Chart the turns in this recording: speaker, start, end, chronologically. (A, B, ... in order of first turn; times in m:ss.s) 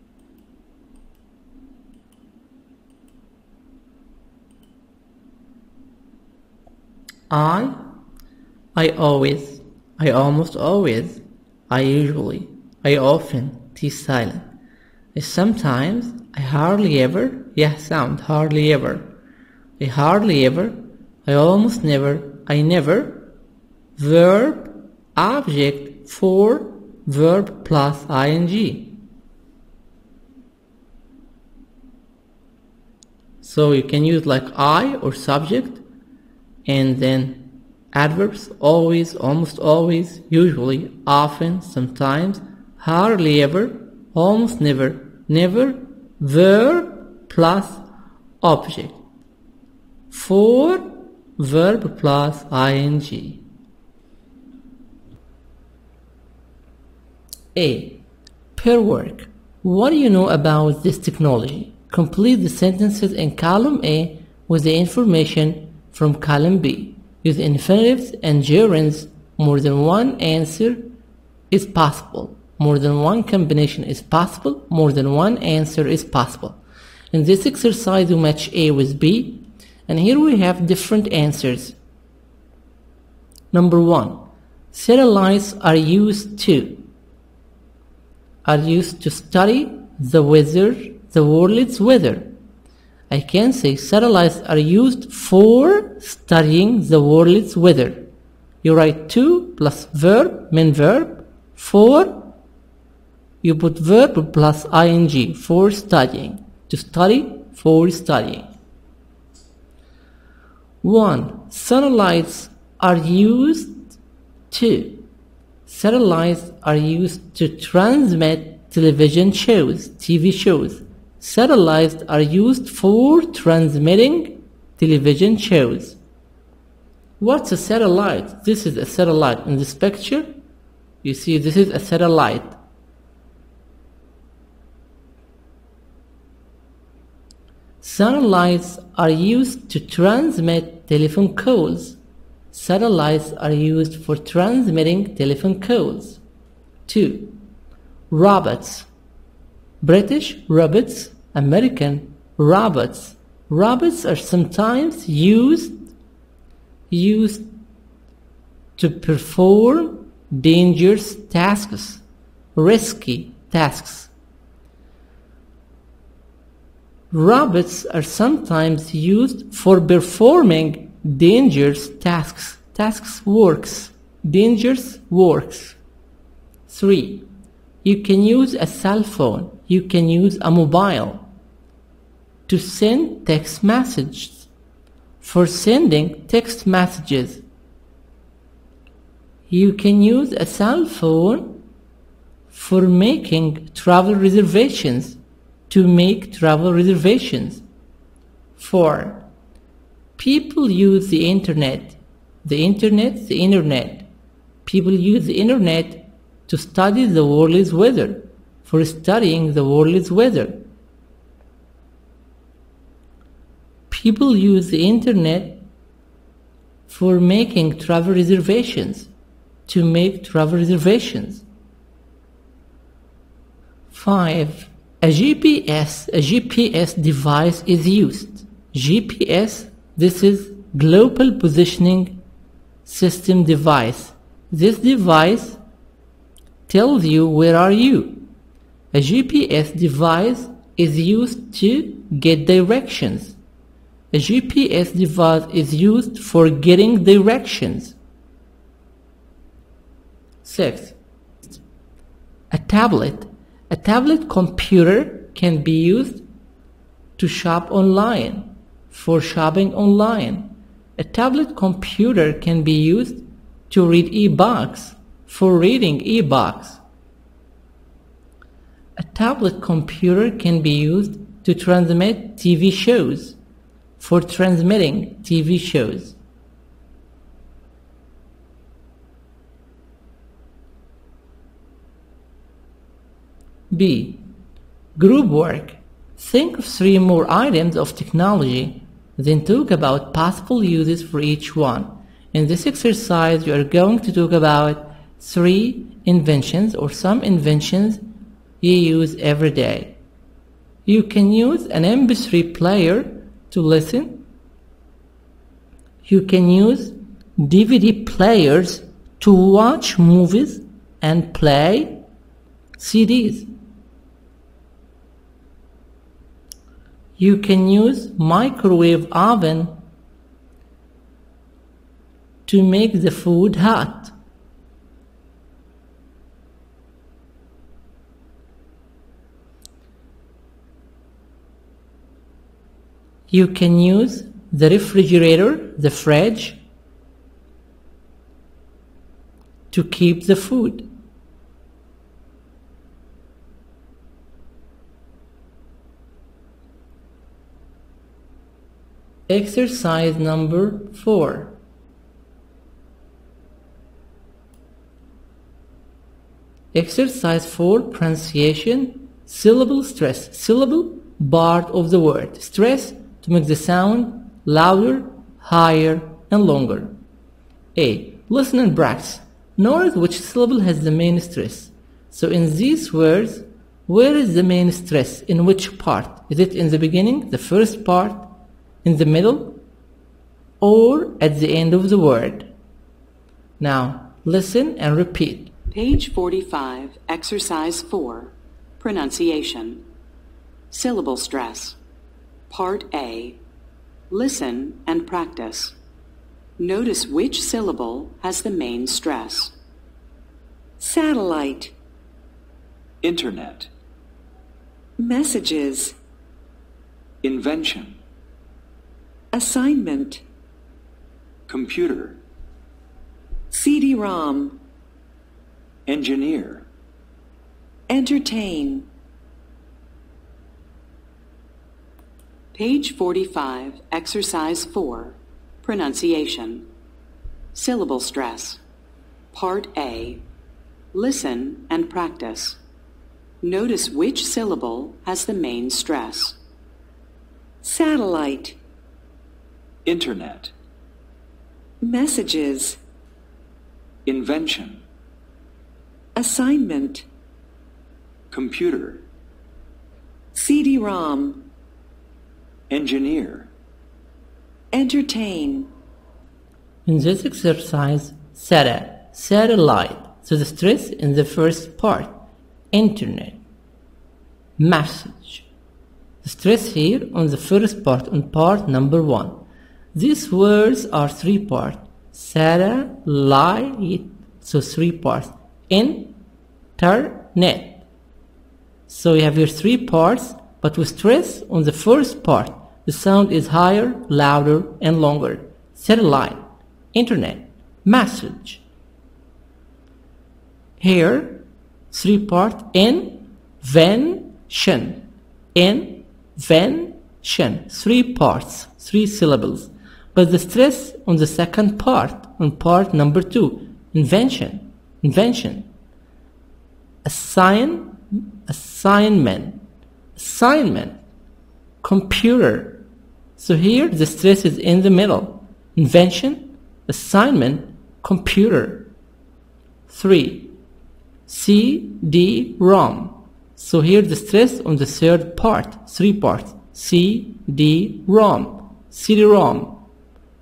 0:07.3-0:07.8 A
0:08.8-0:14.5 A
0:15.1-0:19.1 A
0:19.8-0:23.3 A
0:24.0-0:29.0 A
0:33.4-0:35.8 A
0:36.6-0:47.8 A
0:48.4-0:49.0 A
0:50.1-0:53.4 A
0:57.6-0:58.0 A
0:58.6-1:10.9 A
1:11.5-1:16.6 A
1:17.1-1:21.8 A
1:23.5-1:26.9 A
1:28.4-1:32.3 A
1:33.1-1:38.1 A
1:38.6-1:42.3 A
1:43.4-1:48.5 A
1:50.8-1:53.9 A
1:54.5-1:55.1 A
1:55.7-2:06.0 A
2:07.2-2:10.3 A
2:11.0-2:12.6 A
2:17.8-2:22.0 A
2:22.5-2:26.2 A
2:26.9-2:27.4 A
2:28.1-2:28.9 A
2:29.8-2:35.9 A
2:36.9-2:37.5 A
2:38.8-2:42.0 A
2:42.6-2:44.1 A
2:47.1-2:55.8 A
2:56.7-2:57.3 A
2:57.8-3:01.3 A
3:02.5-3:04.5 A
3:05.2-3:07.4 A
3:09.5-3:11.6 A
3:12.5-3:15.2 A
3:15.7-3:17.6 A
3:18.6-3:19.3 A
3:20.2-3:24.1 A
3:24.6-3:30.7 A
3:33.9-3:35.6 A
3:36.9-3:39.1 A
3:39.7-3:41.4 A
3:43.9-3:52.2 A
3:52.9-3:55.6 A
3:56.7-3:58.3 A
3:58.9-4:03.4 A
4:04.1-4:08.0 A
4:10.4-4:11.0 A
4:12.5-4:16.2 A
4:17.2-4:26.8 A
4:29.0-4:33.4 A
4:34.0-4:36.2 A
4:43.7-4:44.2 A
4:45.0-4:58.0 A
4:58.6-5:00.0 A
5:00.9-5:04.2 A
5:06.0-5:12.0 A
5:12.8-5:13.5 A
5:17.2-5:19.8 A
5:22.5-5:24.1 A
5:33.3-5:36.6 A
5:39.7-5:40.9 A
5:49.3-5:51.6 A
5:56.7-6:07.0 A
6:07.8-6:18.3 A
6:18.8-6:19.6 A
6:20.6-6:22.5 A
6:23.6-6:25.5 A
6:25.7-6:29.8 B
6:30.7-6:31.8 B
6:32.5-6:33.4 B
6:34.1-6:35.8 B
6:36.6-6:39.5 B
6:40.8-6:41.7 C
6:43.0-6:43.7 D
6:45.0-6:46.0 C
6:47.2-6:48.0 D
6:49.3-6:50.2 C
6:51.5-6:52.2 D
6:53.5-6:54.6 C
6:55.9-6:56.7 D
6:57.9-6:58.9 C
7:02.5-7:06.7 B
7:07.5-7:08.6 B
7:09.3-7:10.2 B
7:10.9-7:12.6 B
7:13.4-7:16.4 B
7:17.6-7:18.6 C
7:19.8-7:20.5 D
7:21.8-7:22.8 C
7:24.1-7:24.8 D
7:26.2-7:27.1 C
7:28.3-7:29.0 D
7:30.3-7:31.5 C
7:32.7-7:33.5 D
7:34.7-7:35.7 C
7:36.9-7:42.2 A
7:42.7-7:43.4 A
7:44.6-7:45.4 A
7:46.2-7:49.4 A
7:49.9-7:56.2 A
7:56.8-7:57.8 A
7:58.9-8:08.6 A
8:10.8-8:25.7 A
8:27.0-8:29.6 A
8:30.2-8:31.0 A
8:31.8-8:32.9 A
8:33.4-8:38.9 A
8:39.9-8:40.6 A
8:41.3-8:49.8 A